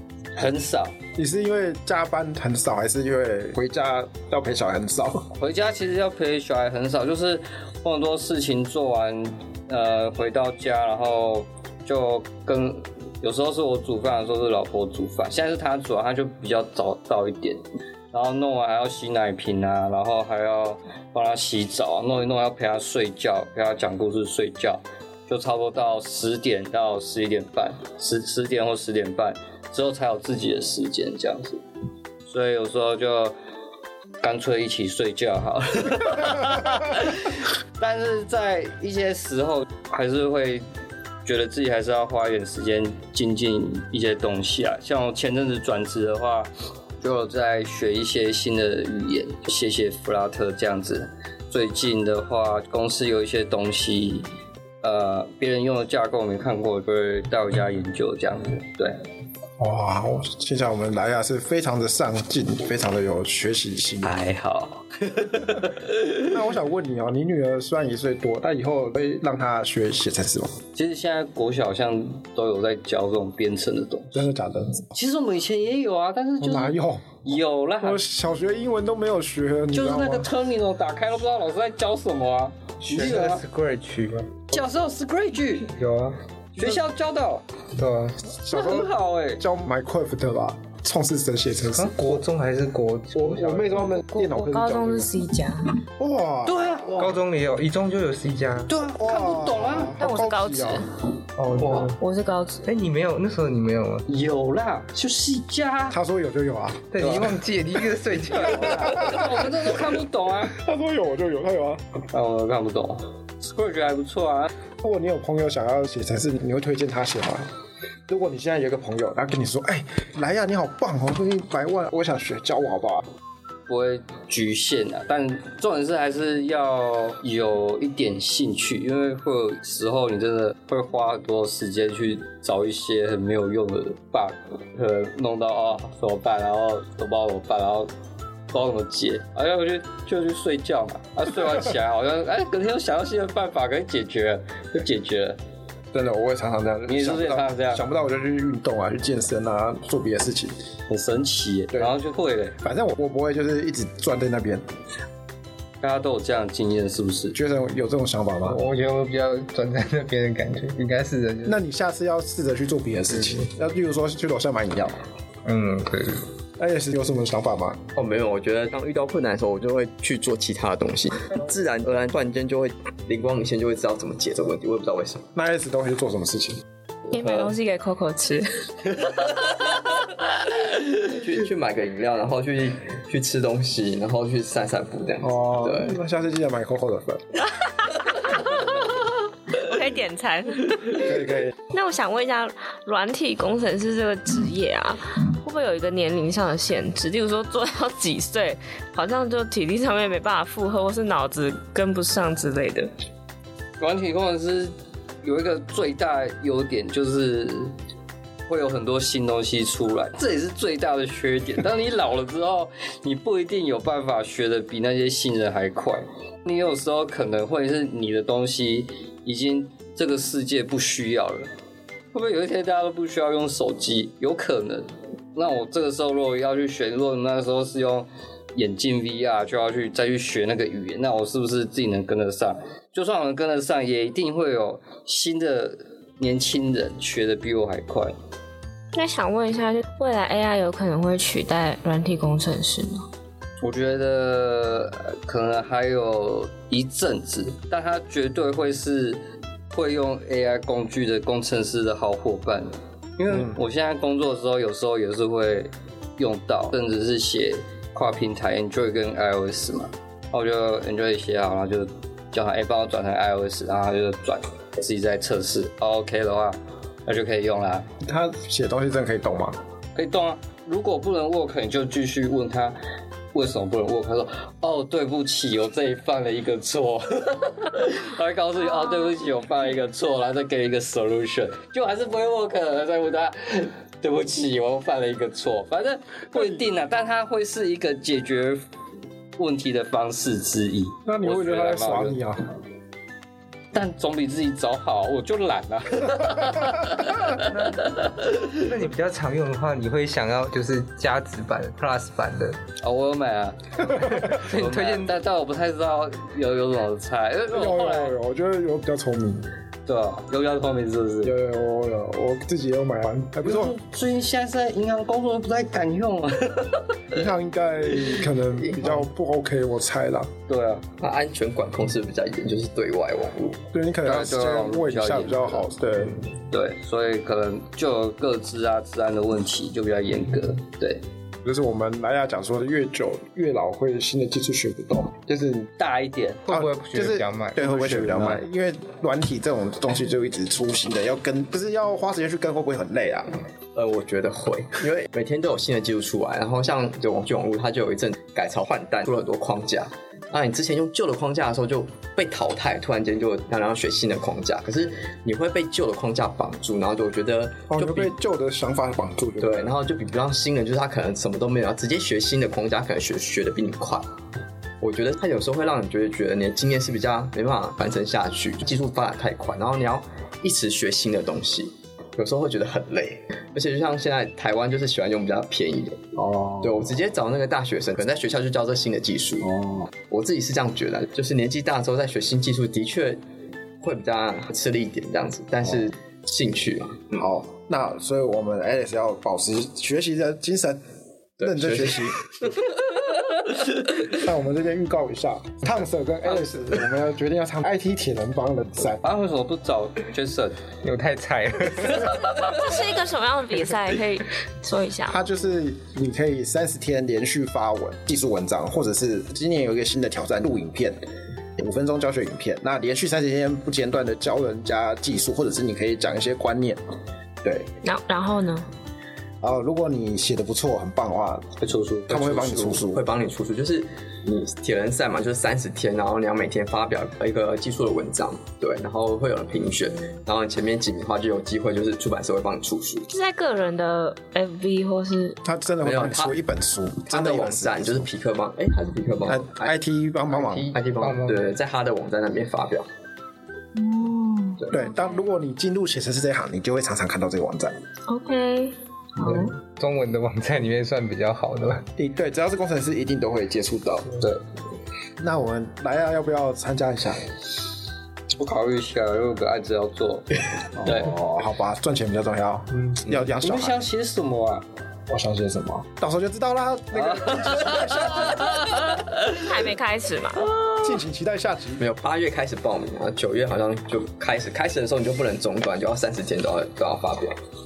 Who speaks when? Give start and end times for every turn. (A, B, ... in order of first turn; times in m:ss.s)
0:00.4-0:00.9 A
0:01.2-0:05.3 B
0:05.3-0:31.6 A
0:32.3-0:33.3 A
0:34.2-0:40.6 A
0:41.2-0:46.5 A
0:47.0-0:54.3 A
0:54.8-0:59.0 A
0:59.6-1:04.1 B
1:04.0-1:06.4 A
1:06.3-1:10.6 B
1:10.8-1:14.2 A
1:14.1-1:14.9 B
1:14.9-1:18.0 A
1:16.4-1:17.2 B
1:17.8-1:20.3 B
1:19.7-1:23.4 A
1:22.8-1:24.4 C
1:24.5-1:25.7 A
1:25.7-1:26.2 C
1:26.6-1:27.4 A
1:27.8-1:28.2 C
1:28.3-1:32.2 B
1:28.5-1:29.4 A
1:31.7-1:33.9 C
1:33.1-1:35.1 B
1:34.0-1:35.7 D
1:36.0-1:37.1 B
1:36.4-1:37.0 A
1:37.0-1:38.7 C
1:38.7-1:39.9 A
1:38.9-1:40.8 B
1:40.0-1:40.9 D
1:41.4-1:42.0 C
1:41.6-1:41.9 E
1:41.9-1:42.6 D
1:42.6-1:44.0 C
1:44.1-1:46.0 A
1:45.9-1:47.2 B
1:46.9-1:49.1 C
1:48.3-1:50.5 A
1:48.6-1:49.5 B
1:50.4-1:52.0 B
1:52.1-1:54.5 A
1:54.8-1:57.5 B
1:58.1-2:03.0 B
2:03.7-2:17.9 A
2:18.5-2:25.4 A
2:25.9-2:30.5 B
2:26.9-2:27.8 A
2:30.9-2:32.6 A
2:32.6-2:34.6 B
2:35.8-2:37.4 A
2:37.3-2:38.6 B
2:38.4-2:41.6 C
2:41.4-2:45.0 B
2:45.4-2:46.2 C
2:46.6-2:47.8 B
2:47.9-2:55.2 E
2:55.3-2:56.6 B
2:57.1-2:58.6 D
2:57.2-2:57.5 E
3:01.0-3:06.0 E
3:05.2-3:07.4 B
3:08.2-3:08.6 D
3:09.5-3:11.1 D
3:10.9-3:11.5 B
3:11.7-3:22.9 D
3:23.8-3:27.7 A
3:28.5-3:41.5 A
3:42.1-3:58.1 A
3:58.9-4:03.0 D
4:03.6-4:09.2 A
4:09.7-4:27.8 A
4:13.3-4:13.6 B
4:28.0-4:29.6 B
4:30.0-4:32.8 A
4:33.3-4:48.6 A
4:49.4-4:52.2 A
4:51.0-4:52.4 B
4:53.7-4:58.6 A
4:57.4-4:57.9 C
4:58.5-5:02.6 C
5:02.8-5:08.2 A
5:03.8-5:05.1 C
5:07.5-5:09.5 B
5:09.9-5:11.3 A
5:11.2-5:13.7 B
5:13.4-5:17.2 A
5:17.1-5:20.3 B
5:18.6-5:19.0 E
5:20.5-5:20.8 A
5:21.0-5:23.6 E
5:23.7-5:26.2 B
5:24.0-5:25.6 A
5:26.5-5:31.0 A
5:31.4-5:35.7 B
5:35.8-5:36.4 A
5:36.4-5:38.4 C
5:36.5-5:43.4 B
5:43.7-5:58.1 E
5:57.7-5:59.7 B
5:59.4-6:04.1 E
6:04.8-6:23.2 E
6:16.2-6:16.8 B
6:19.4-6:19.9 B
6:23.8-6:27.2 E
6:27.1-6:30.8 B
6:31.4-6:32.5 E
6:31.4-6:32.2 B
6:34.1-6:39.0 B
6:39.0-6:40.6 A
6:40.8-6:42.5 C
6:42.3-6:45.2 D
6:45.1-6:51.0 B
6:51.6-6:56.8 B
6:57.4-6:57.7 B
6:57.8-6:58.7 D
6:59.4-7:01.5 B
7:01.6-7:02.3 A
7:02.1-7:03.0 B
7:02.1-7:13.1 E
7:13.1-7:15.4 D
7:15.4-7:18.1 B
7:15.8-7:16.3 E
7:17.1-7:19.7 E
7:19.3-7:20.8 B
7:20.3-7:22.9 E
7:21.0-7:21.4 C
7:23.8-7:24.6 D
7:24.7-7:27.8 B
7:28.1-7:29.5 D
7:29.2-7:31.9 C
7:32.0-7:34.2 B
7:34.1-7:34.4 C
7:35.2-7:37.2 B
7:38.4-7:41.2 A
7:40.8-7:43.8 B
7:43.1-7:44.6 A
7:45.1-7:49.0 B
7:46.9-7:49.4 A
7:49.3-7:50.5 D
7:50.8-7:51.8 B
7:51.8-7:57.4 E